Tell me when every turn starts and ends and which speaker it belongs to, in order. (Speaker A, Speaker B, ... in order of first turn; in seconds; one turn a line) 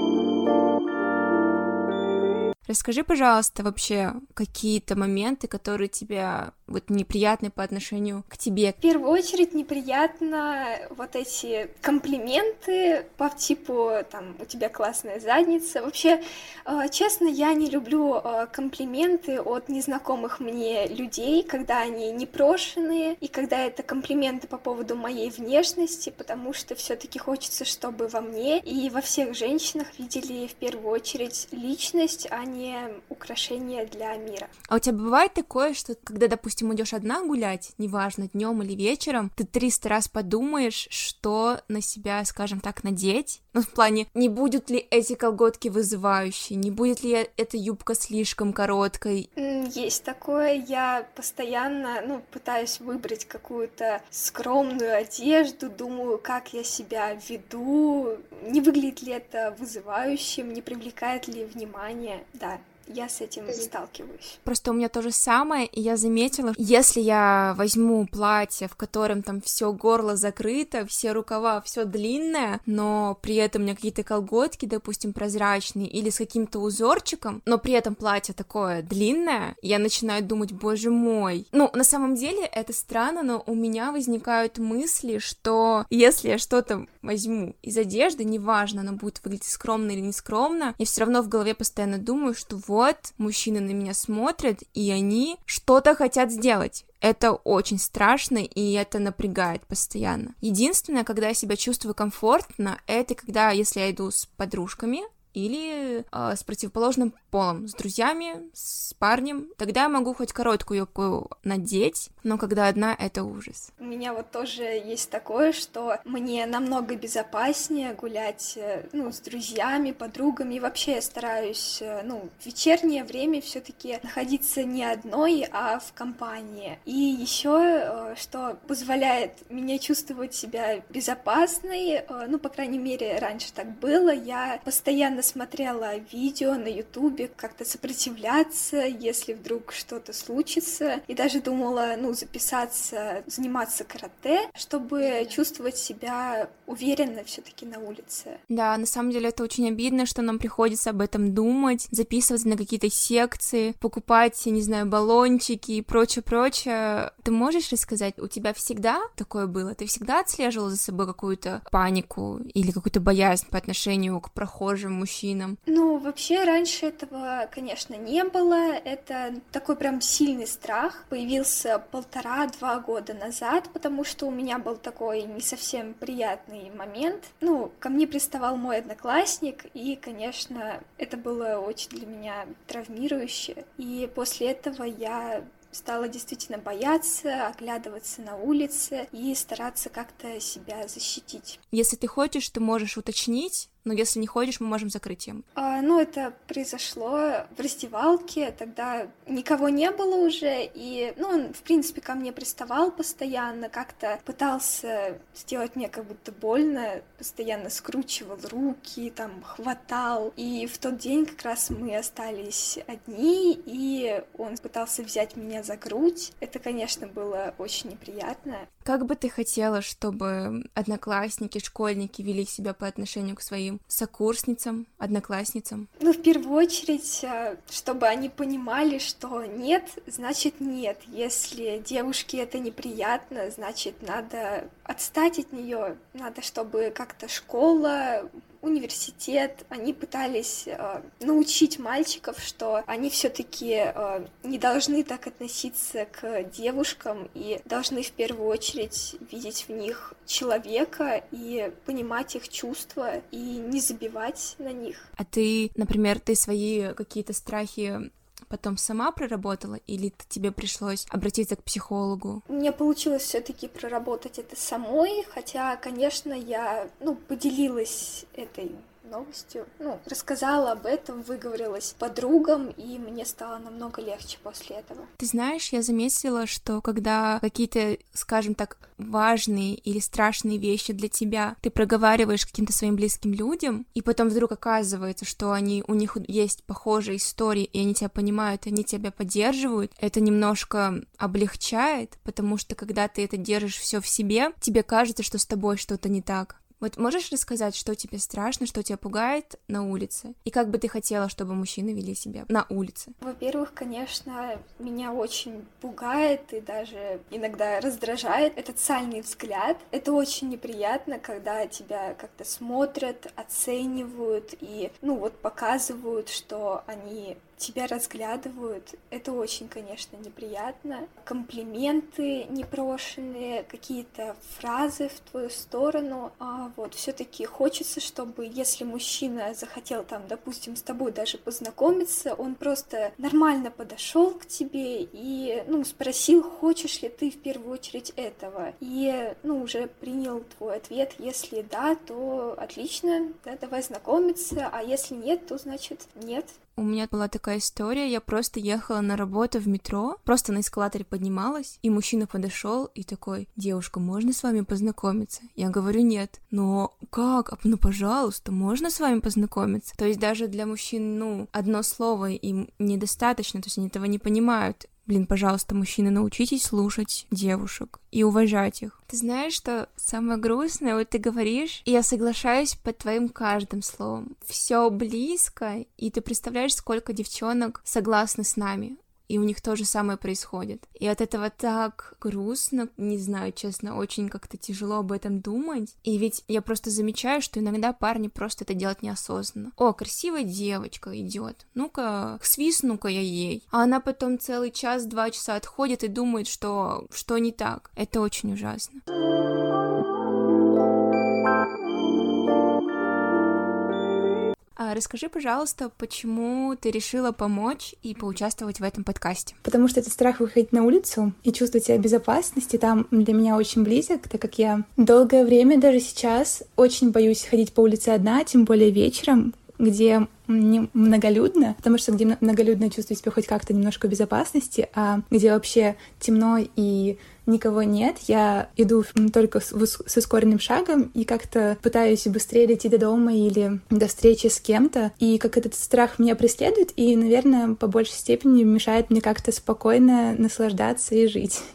Speaker A: 2.7-8.8
Speaker B: 8.8-34.5
Speaker A: 34.7-49.3
Speaker B: 49.4-64.4
Speaker A: 64.5-113.7
Speaker B: 113.8-148.4
Speaker A: 148.5-165.6
Speaker B: 165.7-191.6
Speaker A: 191.7-195.4
Speaker B: 195.6-218.7
Speaker A: 218.8-225.9
Speaker B: 226.0-255.1
Speaker A: 255.2-262.4
Speaker B: 262.5-275.1
Speaker A: 275.2-303.1
Speaker B: 303.2-346.6
Speaker A: 346.8-399.0
Speaker A: 404.8-409.6
Speaker C: 409.6-441.7